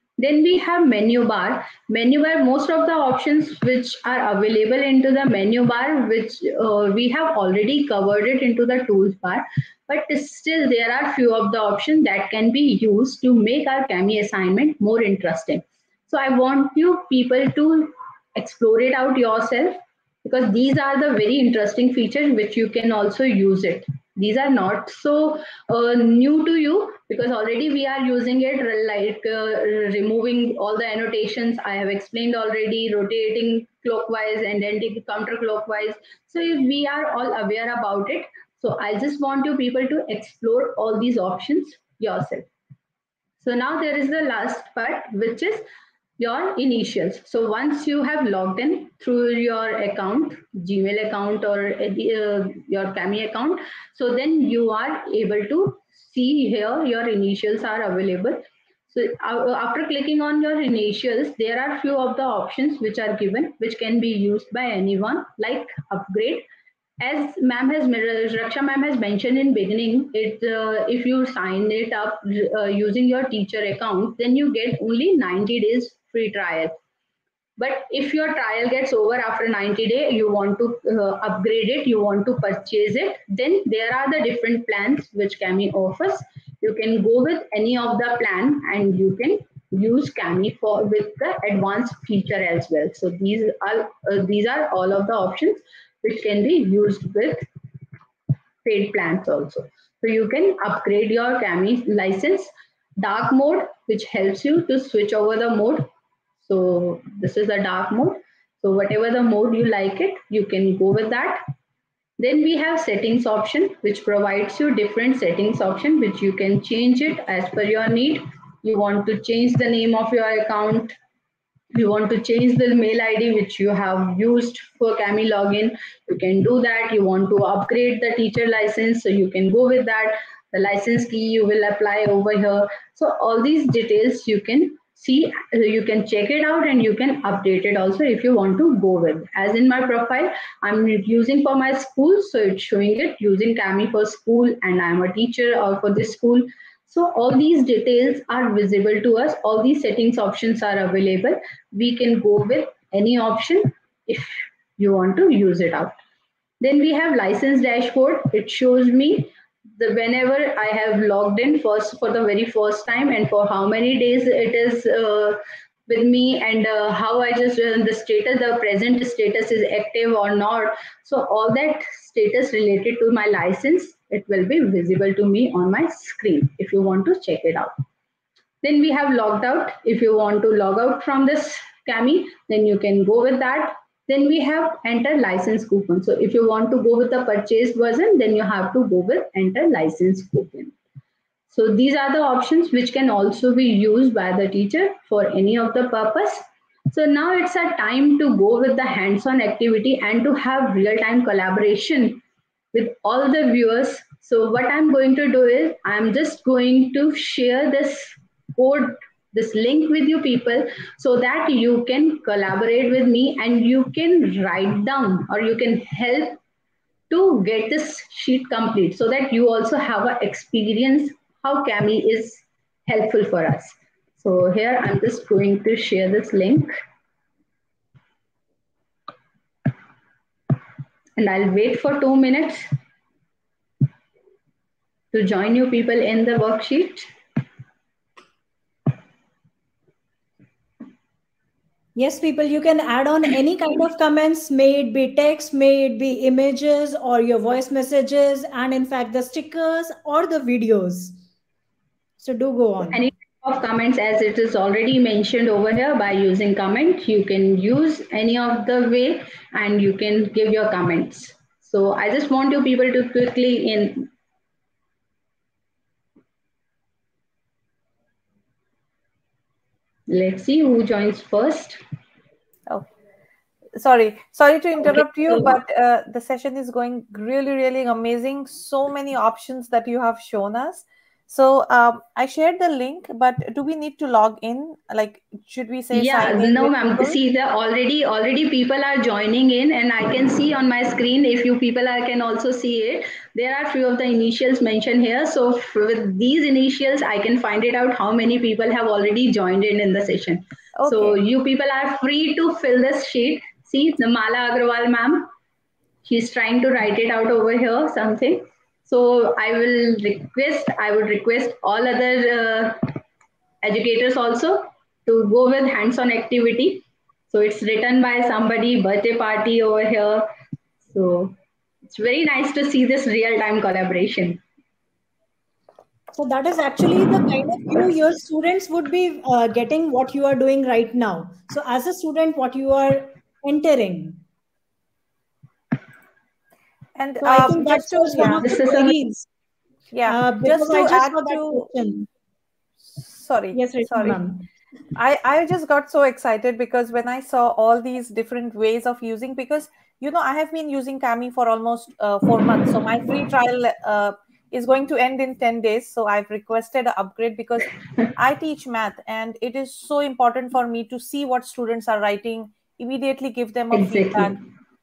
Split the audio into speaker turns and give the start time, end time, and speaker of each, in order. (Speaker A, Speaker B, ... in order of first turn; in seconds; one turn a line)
Speaker A: 0.2-42.5
Speaker A: 43.4-45.7
Speaker A: 46.2-66.5
Speaker A: 67.0-76.7
Speaker A: 77.6-97.5
Speaker A: 98.6-105.9
Speaker A: 106.4-111.4
Speaker A: 112.2-121.0
Speaker A: 121.7-155.9
Speaker A: 156.6-177.7
Speaker A: 178.6-190.7
Speaker A: 191.5-202.2
Speaker A: 202.7-216.4
Speaker A: 217.1-226.7
Speaker A: 231.2-232.7
Speaker A: 235.1-237.1
Speaker B: 241.9-251.2
Speaker B: 252.2-253.0
Speaker A: 252.9-264.1
Speaker A: 270.1-271.8
Speaker C: 273.8-287.2
Speaker A: 274.8-275.6
Speaker A: 285.9-305.3
Speaker C: 300.8-301.2
Speaker A: 306.1-312.9
Speaker A: 313.6-320.3
Speaker A: 320.9-324.4
Speaker B: 326.1-334.2
Speaker C: 336.9-339.1
Speaker B: 337.2-339.3
Speaker A: 338.4-339.1
Speaker C: 339.9-341.7
Speaker B: 340.1-342.1
Speaker C: 342.9-344.2
Speaker B: 343.5-344.5
Speaker C: 344.9-364.4
Speaker A: 363.7-364.4